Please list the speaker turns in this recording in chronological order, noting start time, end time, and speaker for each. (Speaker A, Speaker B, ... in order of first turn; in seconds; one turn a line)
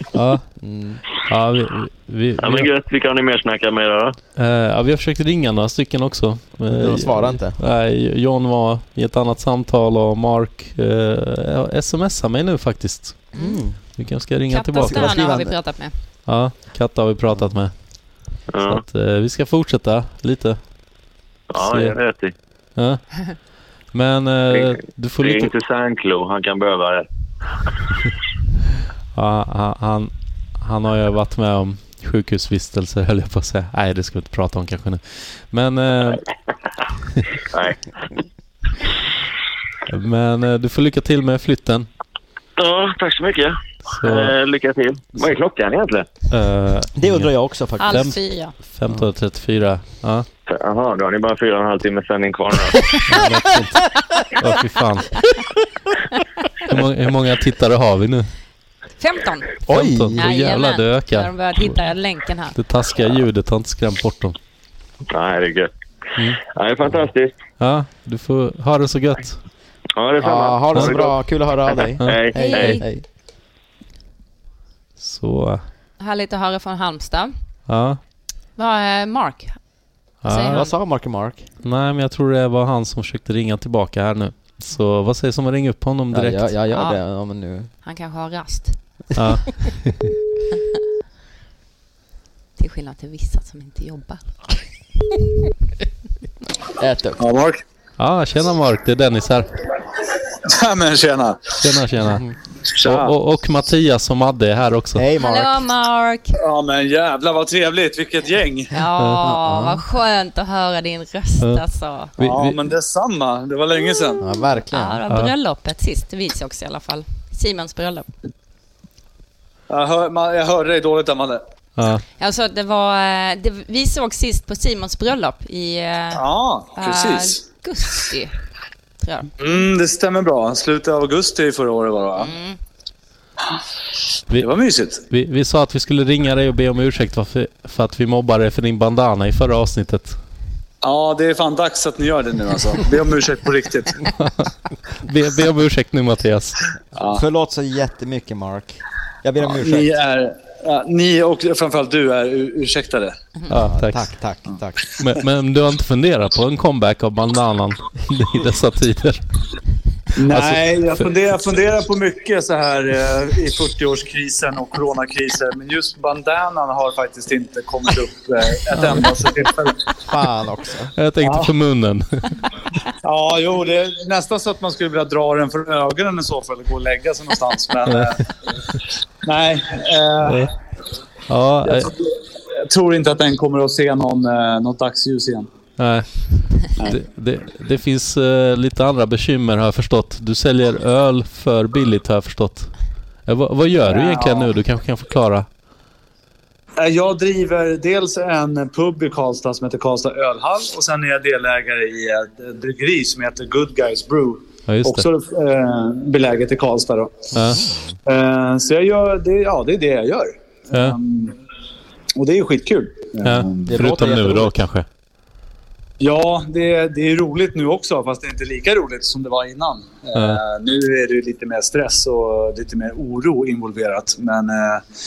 Speaker A: 0.1-0.5
Speaker B: 0.5-1.0
Speaker A: 1.3-2.7
Speaker C: 2.4-4.2
Speaker A: 4.3-13.3
Speaker B: 6.7-7.6
Speaker D: 13.3-13.6
Speaker B: 13.3-13.8
Speaker A: 14.0-15.3
Speaker D: 14.5-15.9
Speaker B: 14.8-15.6
Speaker A: 16.3-17.7
Speaker C: 18.5-18.8
Speaker A: 18.6-20.6
Speaker C: 21.5-22.3
Speaker A: 21.6-21.9
Speaker A: 22.8-23.0
Speaker A: 23.9-25.5
Speaker C: 24.5-27.1
Speaker A: 29.1-36.2
Speaker C: 37.5-37.8
Speaker A: 39.9-41.9
Speaker C: 42.6-46.1
Speaker A: 43.9-44.3
Speaker A: 46.3-47.3
Speaker B: 47.0-48.1
Speaker D: 47.8-48.5
Speaker A: 47.9-50.3
Speaker C: 50.5-52.9
Speaker A: 53.0-55.2
Speaker A: 56.7-58.3
Speaker D: 59.0-59.5
Speaker B: 59.7-60.2
Speaker A: 59.7-61.8
Speaker D: 60.1-62.5
Speaker A: 62.5-64.3
Speaker C: 65.1-67.4
Speaker A: 67.6-69.4
Speaker C: 70.0-71.2
Speaker B: 70.2-73.0
Speaker C: 71.7-72.8
Speaker A: 72.0-72.8
Speaker D: 72.3-72.8
Speaker A: 75.0-75.6
Speaker D: 76.0-77.3
Speaker A: 77.7-78.0
Speaker D: 78.6-79.6
Speaker A: 80.2-80.7
Speaker D: 80.2-80.7
Speaker B: 80.5-81.5
Speaker A: 81.6-86.5
Speaker B: 86.1-87.7
Speaker D: 86.7-87.0
Speaker D: 87.8-88.8
Speaker A: 89.1-90.0
Speaker D: 92.6-94.2
Speaker B: 96.8-97.2
Speaker E: 97.2-97.6
Speaker A: 98.0-99.5
Speaker E: 100.4-101.6
Speaker A: 101.6-102.2
Speaker E: 102.7-103.1
Speaker A: 102.8-105.0
Speaker B: 104.9-105.6
Speaker D: 105.2-106.4
Speaker E: 106.4-108.7
Speaker D: 108.7-112.1
Speaker A: 109.0-109.3
Speaker B: 109.4-109.8
Speaker A: 112.2-112.6
Speaker E: 112.2-114.2
Speaker B: 114.2-115.0
Speaker D: 114.7-118.1
Speaker E: 119.7-121.4
Speaker A: 121.8-122.0
Speaker D: 122.2-126.2
Speaker E: 126.1-127.4
Speaker D: 126.7-128.3
Speaker D: 129.0-129.3
Speaker E: 129.4-132.3
Speaker D: 132.2-132.6
Speaker E: 134.3-135.0
Speaker A: 135.1-140.2
Speaker E: 140.8-144.1
Speaker A: 145.0-146.6
Speaker E: 146.9-147.2
Speaker B: 147.1-149.9
Speaker E: 149.4-153.1
Speaker A: 153.5-154.1
Speaker B: 153.5-154.8
Speaker A: 155.0-159.2
Speaker E: 160.2-169.7
Speaker A: 160.3-161.0
Speaker B: 170.1-170.9
Speaker A: 171.0-172.3
Speaker E: 171.2-171.5
Speaker E: 173.0-178.2
Speaker E: 179.2-180.5
Speaker A: 181.3-181.9
Speaker E: 181.6-182.1
Speaker E: 182.7-185.5
Speaker A: 185.8-192.7
Speaker A: 193.2-195.4
Speaker E: 193.8-194.5
Speaker E: 196.8-207.2
Speaker A: 204.7-205.0
Speaker A: 207.3-207.6
Speaker B: 207.6-207.9
Speaker E: 208.1-211.3
Speaker E: 212.2-213.7
Speaker A: 213.2-214.8
Speaker B: 213.7-214.6
Speaker E: 216.0-224.8